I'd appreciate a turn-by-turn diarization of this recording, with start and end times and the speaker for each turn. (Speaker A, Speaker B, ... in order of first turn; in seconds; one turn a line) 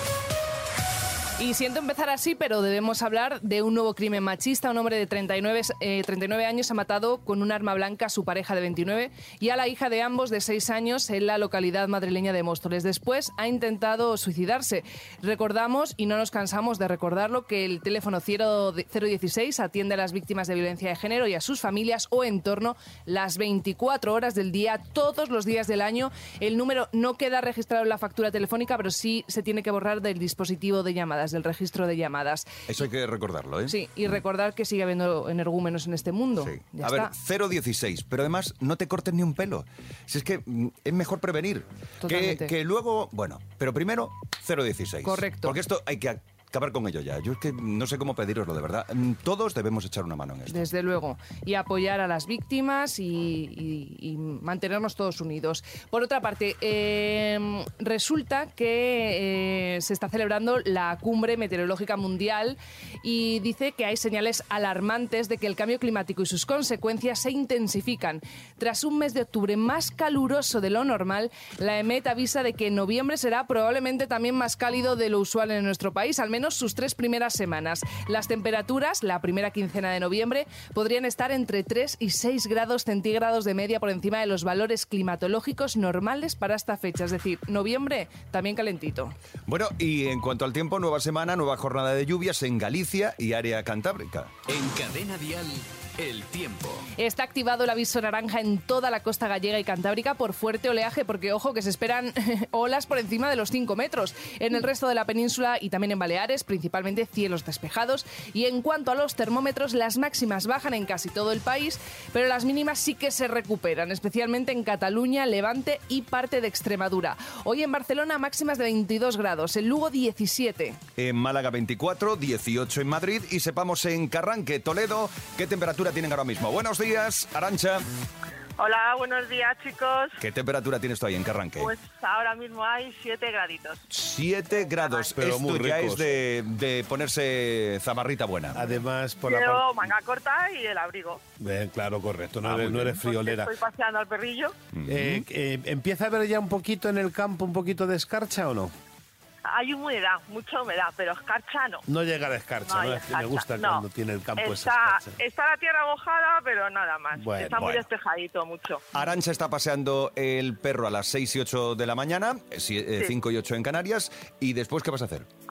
Speaker A: 1.4-32.5
Speaker B: 32.7-33.7
Speaker A: 33.7-37.1
Speaker B: 36.4-50.6
Speaker A: 42.0-42.5
Speaker A: 45.0-45.6
Speaker A: 50.5-89.2
Speaker B: 89.5-94.3
Speaker C: 94.5-96.9
Speaker A: 97.0-120.8
Speaker B: 121.0-127.8
Speaker D: 128.6-130.2
Speaker B: 130.2-131.7
Speaker D: 131.6-133.8
Speaker B: 133.9-138.7
Speaker D: 134.7-135.2
Speaker E: 135.2-136.2
Speaker E: 138.5-139.8
Speaker D: 139.2-141.2
Speaker E: 141.4-143.6
Speaker B: 142.4-142.9
Speaker D: 142.9-144.6
Speaker B: 144.7-145.2
Speaker E: 144.9-148.7
Speaker D: 149.4-151.8
Speaker E: 151.9-155.2
Speaker D: 152.7-153.9
Speaker D: 154.4-158.9
Speaker E: 157.2-157.7
Speaker B: 157.6-157.9
Speaker B: 158.9-165.3